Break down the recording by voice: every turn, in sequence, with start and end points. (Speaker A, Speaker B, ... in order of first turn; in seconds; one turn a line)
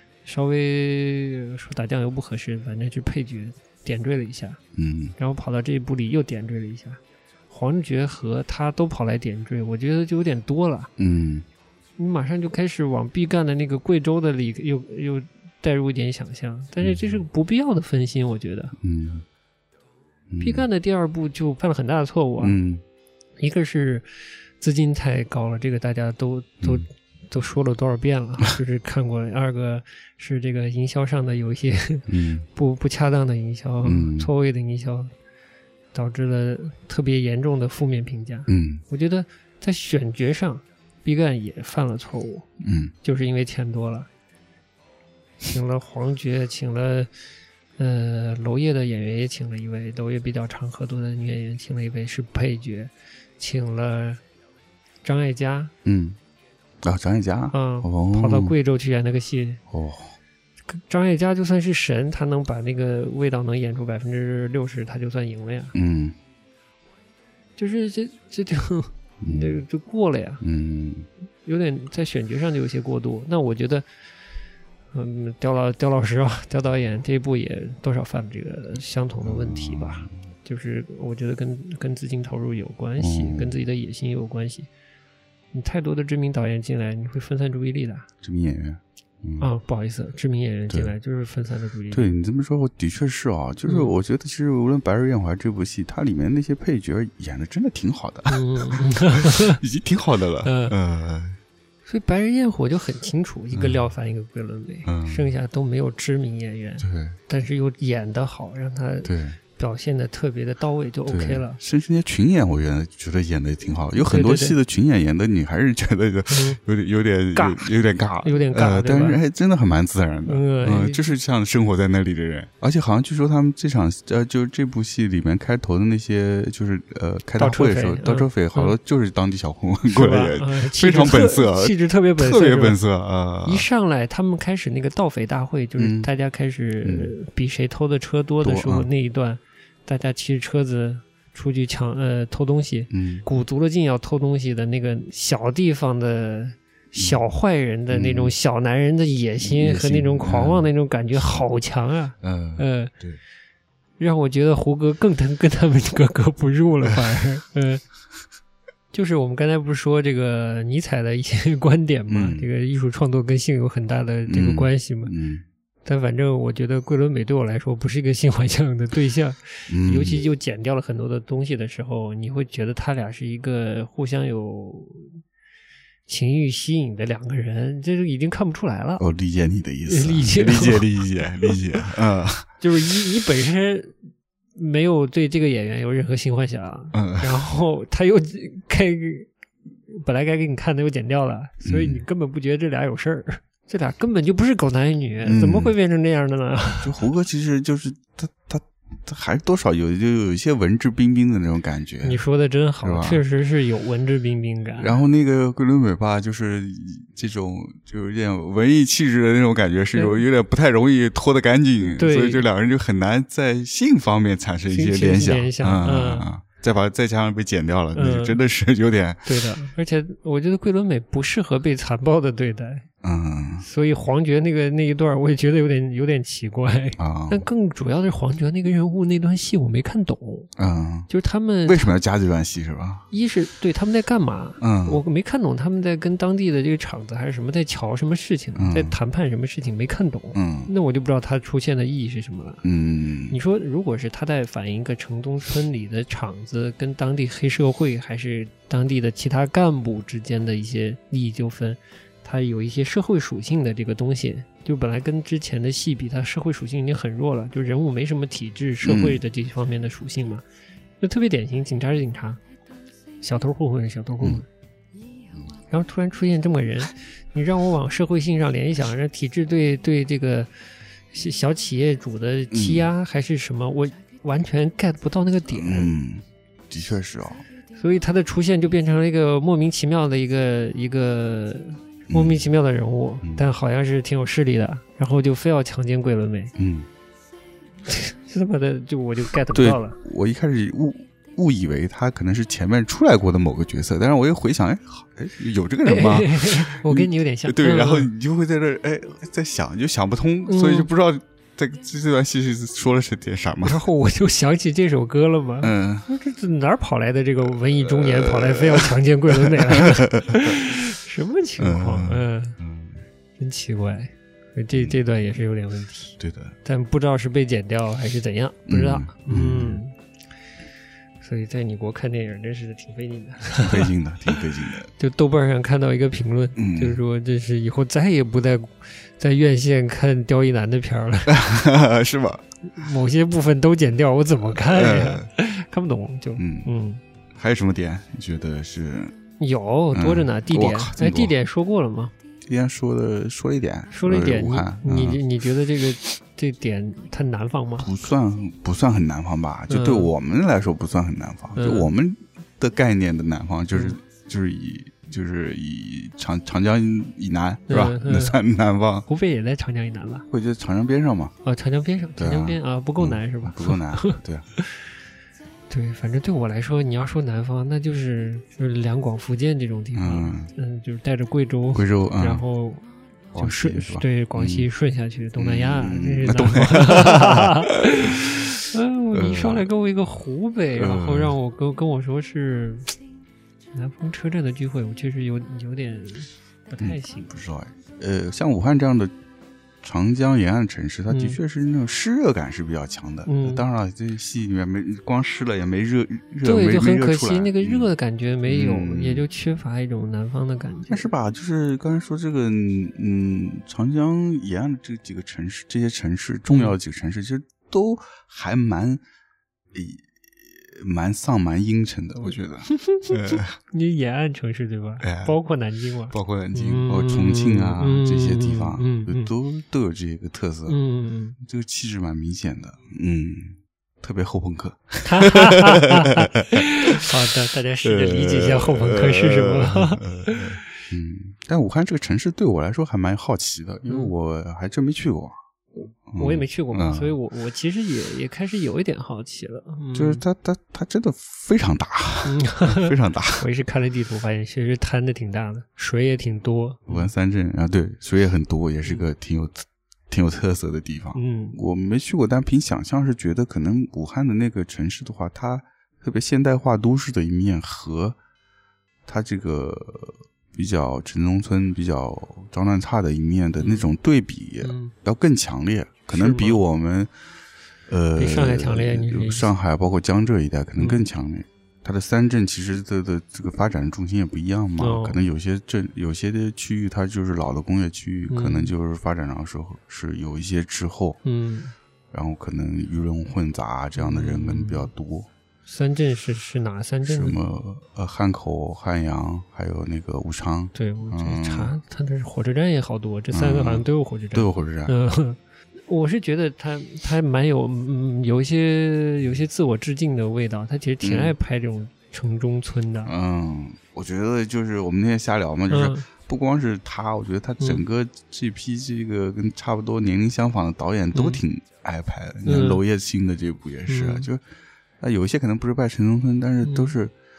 Speaker A: 0.2-4.6
Speaker B: 4.7-5.2
Speaker A: 5.2-10.9
Speaker B: 11.0-11.4
Speaker A: 12.0-18.7
Speaker B: 16.8-17.2
Speaker B: 18.8-19.2
Speaker B: 20.3-20.6
Speaker A: 20.4-22.6
Speaker B: 22.4-22.8
Speaker A: 23.4-35.1
Speaker B: 32.1-32.5
Speaker B: 33.8-34.3
Speaker A: 35.9-42.5
Speaker B: 38.5-38.8
Speaker B: 42.6-42.9
Speaker A: 43.0-44.1
Speaker A: 45.4-47.1
Speaker A: 47.8-54.2
Speaker A: 55.0-55.7
Speaker B: 55.8-56.2
Speaker B: 56.8-58.5
Speaker A: 57.5-59.6
Speaker B: 59.7-60.2
Speaker A: 60.7-65.7
Speaker B: 65.7-66.2
Speaker A: 67.6-70.4
Speaker B: 69.2-69.6
Speaker B: 70.4-71.1
Speaker A: 71.4-73.8
Speaker A: 74.9-84.7
Speaker B: 79.2-80.1
Speaker B: 83.0-83.5
Speaker A: 85.5-88.1
Speaker B: 88.2-89.5
Speaker A: 89.4-92.1
Speaker B: 91.9-101.4
Speaker A: 93.7-93.9
Speaker A: 98.3-99.6
Speaker A: 100.4-100.7
Speaker A: 101.8-111.6
Speaker B: 103.5-103.8
Speaker B: 104.8-105.3
Speaker B: 106.8-107.2
Speaker B: 109.0-109.4
Speaker B: 111.0-133.7
Speaker A: 114.0-114.6
Speaker A: 116.3-116.6
Speaker A: 117.3-119.2
Speaker A: 120.2-121.1
Speaker A: 127.4-128.8
Speaker A: 129.9-132.8
Speaker A: 133.4-152.9
Speaker B: 135.8-136.1
Speaker B: 136.8-137.1
Speaker B: 138.4-138.9
Speaker B: 142.9-143.2
Speaker B: 147.9-148.3
Speaker B: 149.4-151.4
Speaker B: 152.2-153.2
Speaker A: 154.0-157.8
Speaker A: 158.9-165.1
Speaker B: 162.1-162.4
Speaker B: 164.3-165.4
Speaker A: 165.8-175.2
Speaker B: 169.7-170.2
Speaker A: 176.1-179.0
Speaker B: 179.0-182.5
Speaker A: 179.9-181.8
Speaker A: 182.6-184.0
Speaker A: 184.5-189.3
Speaker B: 186.9-187.4
Speaker A: 189.9-197.0
Speaker B: 191.6-192.0
Speaker B: 195.2-195.7
Speaker B: 196.8-202.2
Speaker A: 202.0-205.0
Speaker B: 202.8-203.2
Speaker B: 204.8-219.3
Speaker A: 209.9-210.2
Speaker A: 211.9-212.4
Speaker A: 214.7-216.3
Speaker A: 217.9-218.4
Speaker A: 219.2-222.8
Speaker B: 223.0-223.6
Speaker A: 223.6-230.5
Speaker B: 227.0-227.4
Speaker B: 230.6-231.1
Speaker A: 231.1-231.9
Speaker B: 231.6-233.1
Speaker A: 233.1-242.6
Speaker B: 234.6-235.0
Speaker B: 238.6-239.0
Speaker B: 240.3-240.7
Speaker B: 242.6-243.4
Speaker A: 243.3-260.4
Speaker B: 258.8-259.2
Speaker A: 261.0-262.4
Speaker A: 263.2-264.4
Speaker A: 265.7-270.5
Speaker A: 271.1-275.9
Speaker B: 272.5-272.9
Speaker B: 275.5-277.4
Speaker A: 277.7-286.5
Speaker B: 282.1-282.4
Speaker B: 286.6-286.9
Speaker A: 287.9-290.0
Speaker B: 289.5-303.8
Speaker A: 295.8-298.1
Speaker A: 300.5-300.9
Speaker A: 303.6-312.6
Speaker B: 305.6-306.1
Speaker B: 307.8-310.7
Speaker B: 311.6-313.0
Speaker A: 313.4-320.0
Speaker B: 316.2-316.6
Speaker B: 318.7-319.8
Speaker A: 321.2-324.4
Speaker B: 323.6-324.9
Speaker A: 324.9-331.4
Speaker B: 326.6-327.0
Speaker B: 331.3-332.4
Speaker A: 332.7-337.0
Speaker B: 334.5-335.3
Speaker B: 336.4-336.7
Speaker B: 337.3-339.1
Speaker A: 339.4-342.1
Speaker B: 339.9-341.3
Speaker B: 342.4-345.2
Speaker A: 343.9-347.9
Speaker B: 347.8-359.1
Speaker A: 349.7-350.1
Speaker A: 351.6-351.9
Speaker A: 357.7-358.4
Speaker A: 359.1-360.2
Speaker B: 360.3-361.3
Speaker A: 361.4-364.8
Speaker B: 362.2-364.4
Speaker A: 365.7-372.8
Speaker B: 369.9-370.5
Speaker B: 371.7-372.4
Speaker B: 373.3-374.7
Speaker A: 373.4-382.9
Speaker B: 375.4-377.9
Speaker B: 379.1-379.7
Speaker B: 380.7-381.4
Speaker A: 383.7-387.4
Speaker B: 386.8-389.1
Speaker B: 389.8-397.9
Speaker A: 391.1-391.4
Speaker A: 393.2-393.6
Speaker A: 396.4-401.1
Speaker B: 398.4-399.2
Speaker B: 400.9-409.0
Speaker A: 406.5-406.8
Speaker B: 409.7-413.5
Speaker A: 412.2-419.3
Speaker B: 415.0-415.4
Speaker B: 416.1-420.8
Speaker A: 420.7-421.4
Speaker B: 421.4-427.1
Speaker A: 425.0-430.6
Speaker B: 427.8-435.4
Speaker A: 433.9-434.1
Speaker B: 436.1-437.2
Speaker A: 436.1-440.2
Speaker B: 439.9-443.4
Speaker A: 442.2-447.1
Speaker B: 446.9-458.2
Speaker A: 451.1-451.6
Speaker B: 459.1-467.1
Speaker A: 463.6-463.9
Speaker A: 464.6-464.9
Speaker A: 466.1-466.6
Speaker B: 467.9-481.2
Speaker A: 468.2-469.5
Speaker A: 470.8-471.0
Speaker A: 474.8-475.2
Speaker A: 478.3-478.7
Speaker A: 481.2-481.7
Speaker B: 482.1-485.3
Speaker A: 483.9-484.9
Speaker A: 485.6-487.4
Speaker B: 487.0-491.7
Speaker A: 490.7-503.1
Speaker B: 493.3-494.9
Speaker B: 501.0-501.3
Speaker B: 503.1-514.4
Speaker A: 505.7-506.1
Speaker A: 511.1-511.4
Speaker A: 512.4-512.8
Speaker A: 513.9-514.3
Speaker B: 515.0-517.1
Speaker A: 516.6-516.9